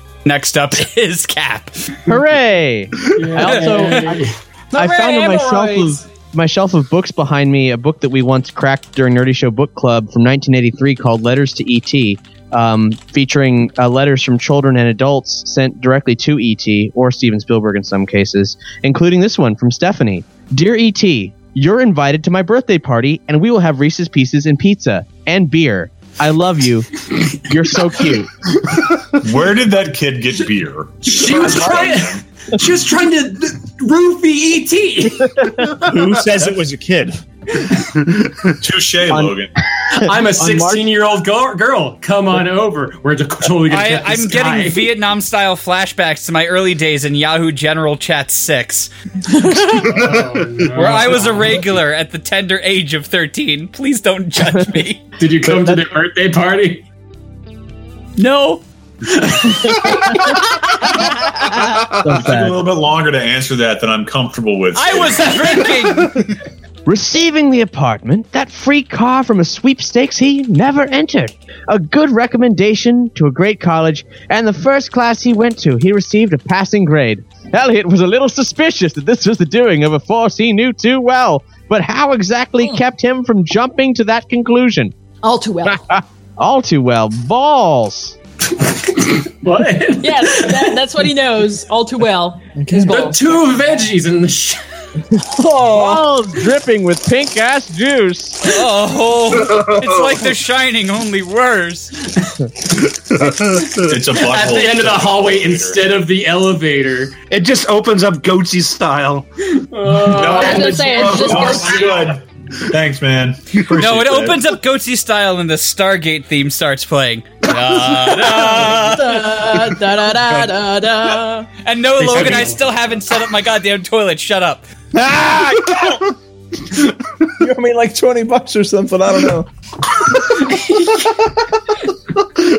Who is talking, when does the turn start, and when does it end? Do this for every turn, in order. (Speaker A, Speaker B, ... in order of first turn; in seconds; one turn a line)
Speaker A: 0.2-1.9
Speaker B: 2.1-28.3
Speaker C: 3.1-4.3
Speaker D: 4.7-5.9
Speaker E: 29.2-32.2
Speaker C: 31.1-35.6
Speaker B: 31.5-31.9
Speaker F: 35.8-37.2
Speaker E: 38.6-39.5
Speaker B: 39.1-39.4
Speaker C: 39.9-44.9
Speaker B: 39.9-40.9
Speaker A: 43.7-48.9
Speaker A: 49.4-49.9
Speaker C: 49.8-51.6
Speaker A: 50.8-55.0
Speaker C: 55.2-56.9
Speaker A: 58.2-58.6
Speaker C: 59.1-60.2
Speaker B: 61.4-62.6
Speaker E: 61.6-65.8
Speaker A: 64.7-66.3
Speaker B: 66.9-84.9
Speaker D: 85.2-85.8
Speaker B: 85.7-88.2
Speaker C: 88.6-90.8
Speaker D: 90.0-93.2
Speaker F: 92.5-93.0
Speaker C: 92.9-94.6
Speaker D: 95.6-96.0
Speaker B: 95.7-98.5
Speaker A: 98.4-102.0
Speaker G: 99.3-100.3
Speaker C: 102.2-102.5
Speaker G: 103.0-103.9
Speaker E: 103.8-105.9
Speaker C: 104.1-107.2
Speaker G: 107.3-109.3
Speaker C: 109.6-112.1
Speaker E: 109.9-114.5
Speaker D: 110.2-112.2
Speaker A: 113.8-119.3
Speaker D: 118.4-121.5
Speaker A: 121.6-124.7
Speaker C: 122.0-122.6
Speaker F: 124.9-126.1
Speaker F: 127.4-129.5